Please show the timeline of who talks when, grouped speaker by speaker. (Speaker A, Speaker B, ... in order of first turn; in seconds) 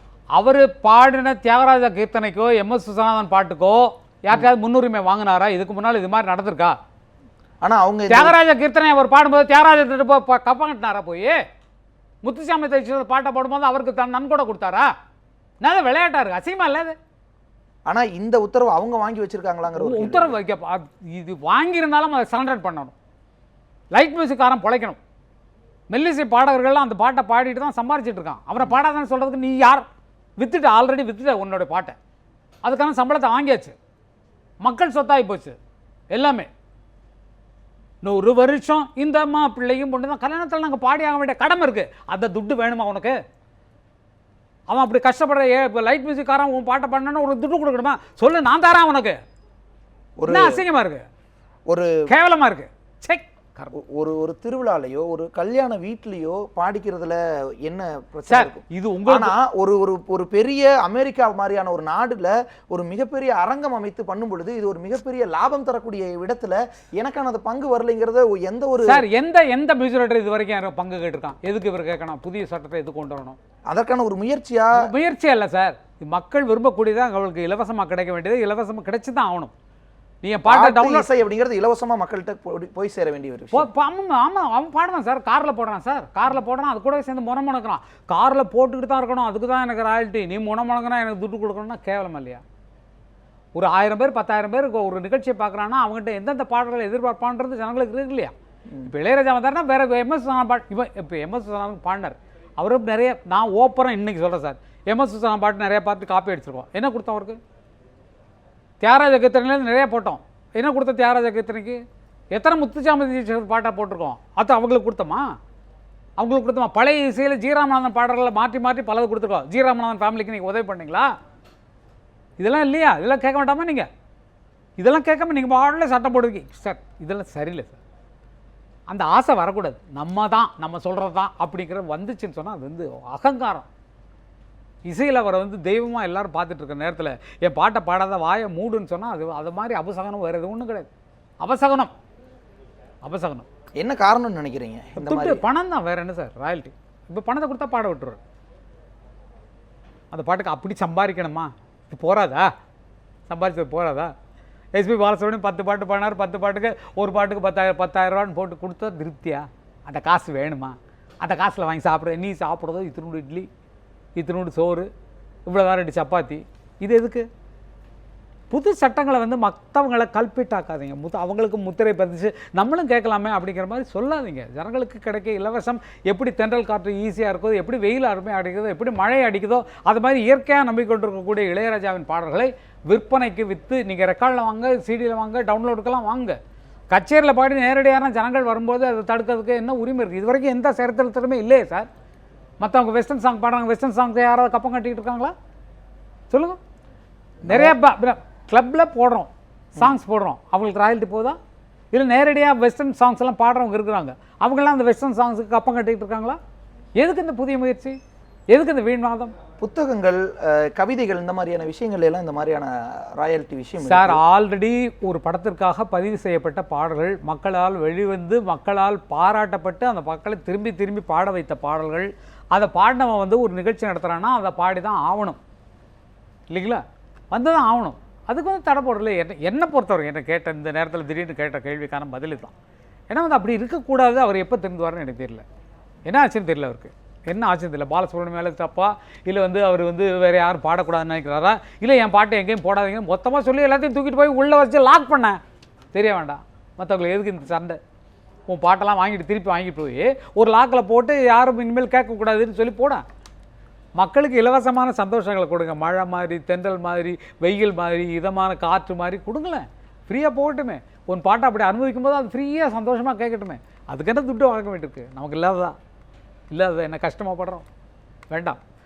Speaker A: 0.3-6.8, 8.1-11.4, 12.2-14.9, 15.6-17.0, 19.7-22.9, 23.9-25.0, 25.9-29.9, 30.4-32.0, 32.6-33.8, 34.6-35.6, 36.1-36.5, 38.0-43.2, 44.7-49.2, 50.3-51.0, 52.1-53.7, 58.3-59.4, 68.8-73.4, 74.8-79.5, 80.2-81.1, 83.5-92.4, 93.5-98.3, 98.8-107.4, 108.8-111.8, 112.3-115.3, 116.2-121.1, 122.4-123.9, 124.8-127.8, 128.9-133.7, 134.8-140.9, 141.4-141.9, 143.0-143.5, 145.0-148.2, 150.1-152.5, 153.3-154.1, 154.8-163.5, 164.2-164.9, 165.5-167.3, 168.5-186.4, 186.9-191.9, 192.6-195.3, 196.3-196.6, 197.5-201.4, 201.9-206.4, 207.0-208.0, 208.5-209.3, 213.8-225.4, 226.5-232.5, 233.1-235.4, 236.1-245.4, 245.9-247.8, 248.5-253.0, 254.0-265.8, 266.5-267.6, 268.3-268.6
Speaker B: 7.6-8.3, 17.9-20.4, 50.2-50.6, 51.7-52.0, 53.8-69.0, 73.7-74.9, 80.5-83.7, 143.8-145.4, 197.5-197.8, 209.6-214.2